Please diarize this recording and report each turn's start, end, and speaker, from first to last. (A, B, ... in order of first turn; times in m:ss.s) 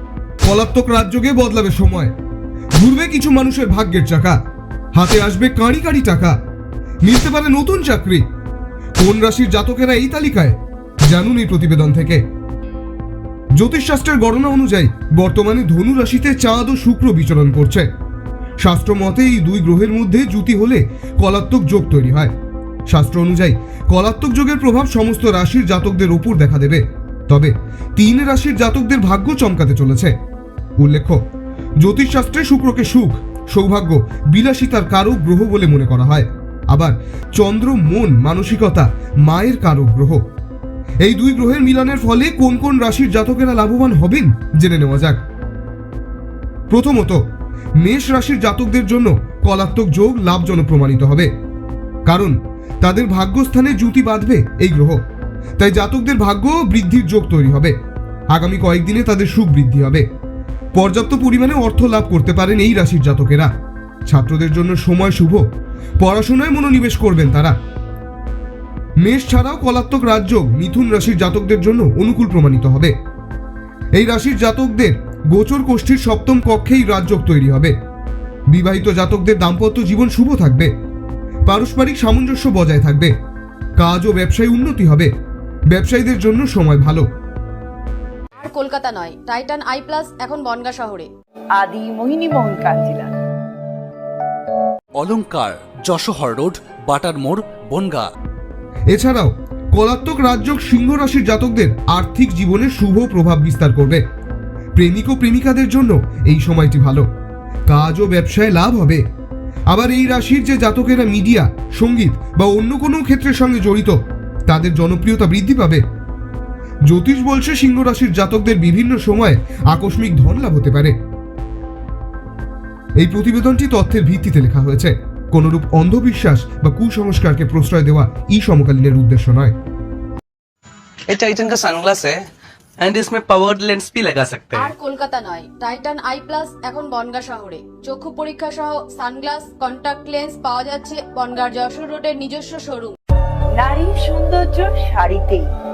0:00.4-0:02.1 A
0:02.8-0:04.4 A
0:04.9-0:06.3 A
0:07.0-0:08.2 A
0:09.0-0:10.6 A
0:11.1-0:12.2 A
0:13.6-0:17.9 A
0:18.6-0:22.3 A
0:22.9-0:30.1 A
0:30.8-0:31.2 A
0:31.8-0:40.2 A
0:41.0-0:45.2 A
0:46.7-0:47.2 A
0:47.8-0:51.3 A
0:52.0-0:55.0 A
0:55.6-0:57.7 A
0:58.3-1:00.0 A
1:00.7-1:03.5 A
1:04.1-1:05.4 A
1:06.0-1:07.5 A
1:09.0-1:12.9 A
1:14.0-1:17.7 A
1:18.5-1:20.7 A
1:21.4-1:23.1 A
1:23.8-1:25.1 A
1:25.7-1:27.0 A
1:28.4-1:31.1 B
1:31.6-1:33.1 C
1:35.0-1:38.1 D
1:38.9-1:44.0 A
1:44.8-1:47.0 A
1:47.7-1:49.0 A
1:49.7-1:54.0 A
1:54.5-1:55.8 A
1:56.9-2:00.9 A
2:03.0-2:09.5 A
2:11.1-2:12.3 E
2:12.8-2:14.7 E
2:14.5-2:23.0 B
2:23.6-2:25.5 C